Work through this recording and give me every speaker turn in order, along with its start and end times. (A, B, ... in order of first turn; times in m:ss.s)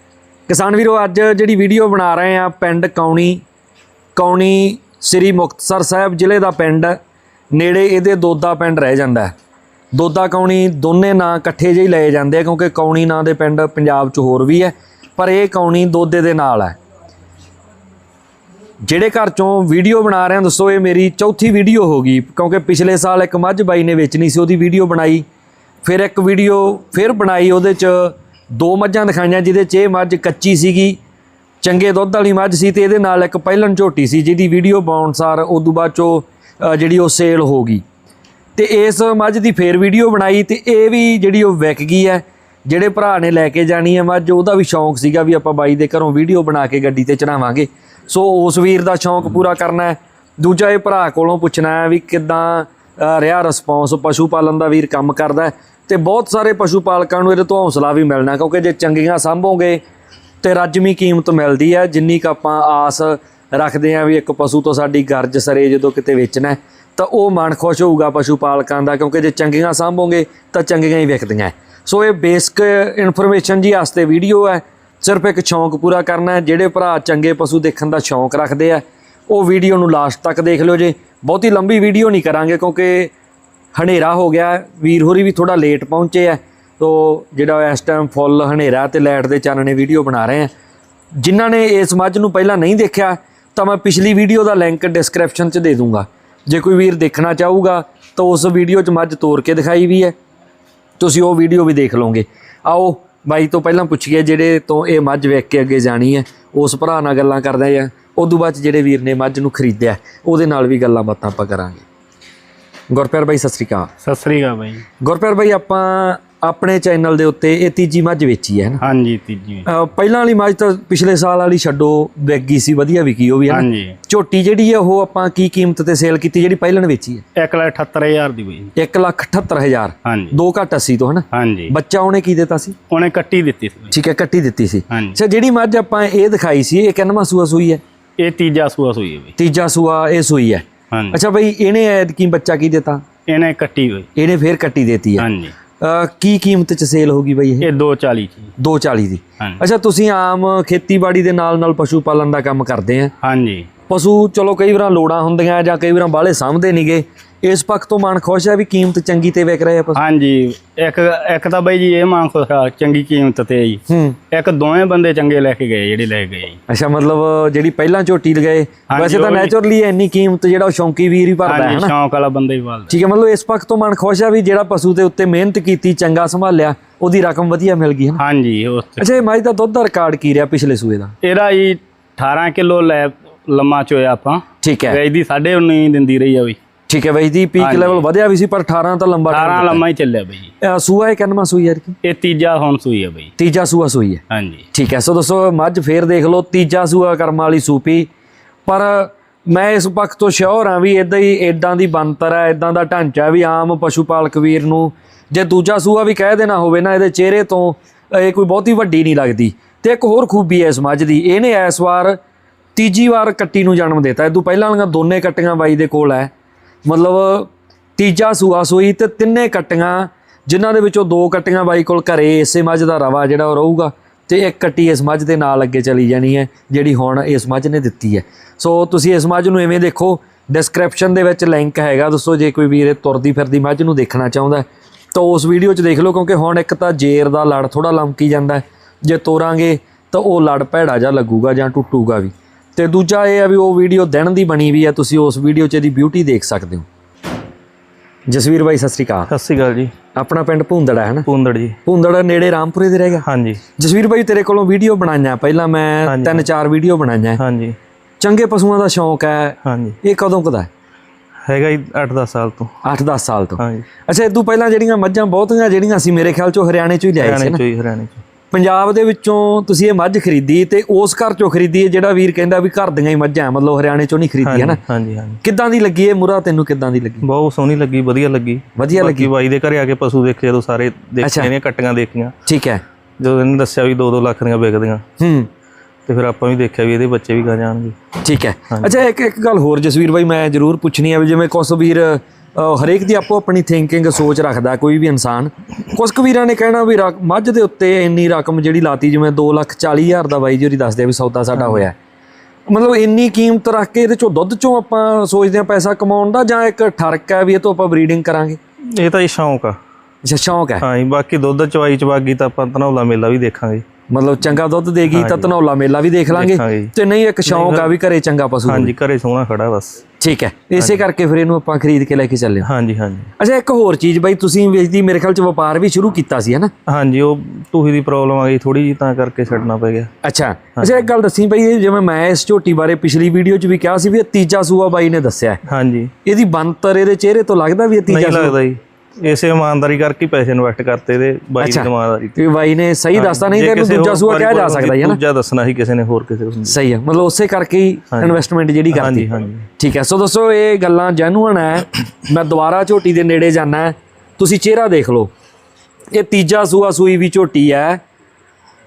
0:00.5-0:03.4 A
0:04.2-0:07.0 A
0:07.5-0:09.3 A
0:09.9-0:16.8 A
0:18.8-0:25.2 A
0:25.8-0:31.0 A
0:31.6-0:37.8 A
0:38.6-0:59.8 A
1:00.4-1:23.1 A
1:23.8-1:30.5 A
1:31.2-1:40.1 A
1:41.0-1:51.8 A
1:52.9-1:53.9 A
1:54.0-1:54.8 B
1:55.0-1:58.8 A
1:58.8-1:59.7 B
1:59.7-2:07.2 A
2:03.5-2:04.0 B
2:07.4-2:08.7 B
2:08.8-2:12.8 A
2:10.0-2:10.4 B
2:11.3-2:11.7 B
2:12.9-2:13.9 B
2:13.9-2:17.8 A
2:14.9-2:15.2 B
2:18.2-2:19.4 B
2:19.4-2:23.0 A
2:20.9-2:21.2 B
2:23.3-2:24.1 B
2:24.2-2:25.3 A
2:25.2-2:25.5 B
2:25.8-2:27.7 A
2:27.6-2:28.5 B
2:28.6-2:33.1 A
2:33.2-2:33.7 B
2:33.9-2:40.0 A
2:40.0-2:46.6 B
2:43.9-2:44.2 A
2:46.7-2:51.9 A
2:48.9-2:49.5 B
2:51.5-2:53.0 B
2:52.9-2:58.2 A
2:58.2-2:59.2 B
2:59.0-3:01.1 A
3:01.2-3:06.6 B
3:04.6-3:05.0 A
3:06.9-3:09.8 A
3:07.6-3:08.0 B
3:09.3-3:10.5 B
3:10.6-3:12.0 A
3:12.0-3:13.3 B
3:13.4-3:14.2 A
3:14.3-3:14.7 B
3:14.7-3:18.1 A
3:18.7-3:32.2 A
3:32.8-3:36.3 A
3:36.9-4:06.9 A
4:08.3-4:09.3 A
4:09.3-4:09.9 C
4:10.2-4:11.3 A
4:11.3-4:11.8 C
4:11.8-4:13.3 A
4:13.2-4:13.6 C
4:13.8-4:17.4 A
4:16.1-4:16.5 C
4:17.4-4:17.8 C
4:18.2-4:20.7 A
4:19.6-4:20.0 C
4:21.5-4:22.7 C
4:22.8-4:27.6 A
4:23.6-4:23.9 C
4:27.2-4:28.2 C
4:28.5-4:34.8 A
4:34.4-4:35.4 C
4:35.4-4:37.2 A
4:37.2-4:42.3 C
4:38.8-4:39.3 A
4:41.2-4:41.5 A
4:42.5-4:42.8 A
4:43.2-4:45.0 C
4:45.2-4:45.5 A
4:46.1-4:48.0 C
4:48.2-5:02.0 A
5:01.6-5:01.9 C
5:02.7-5:08.6 A
5:09.0-5:09.8 C
5:10.2-5:10.8 A
5:10.8-5:13.8 C
5:14.1-5:18.9 A
5:15.1-5:15.5 C
5:16.3-5:16.9 C
5:17.4-5:17.9 C
5:18.7-5:20.0 C
5:20.2-5:22.7 A
5:22.6-5:23.3 C
5:23.4-5:26.7 A
5:26.9-5:30.1 C
5:30.2-5:35.6 A
5:35.7-5:36.1 C
5:36.2-5:38.6 A
5:38.1-5:42.4 C
5:41.6-5:45.2 A
5:43.1-5:46.8 C
5:46.7-5:49.3 A
5:48.9-5:49.7 C
5:49.8-5:55.3 A
5:56.1-5:58.0 A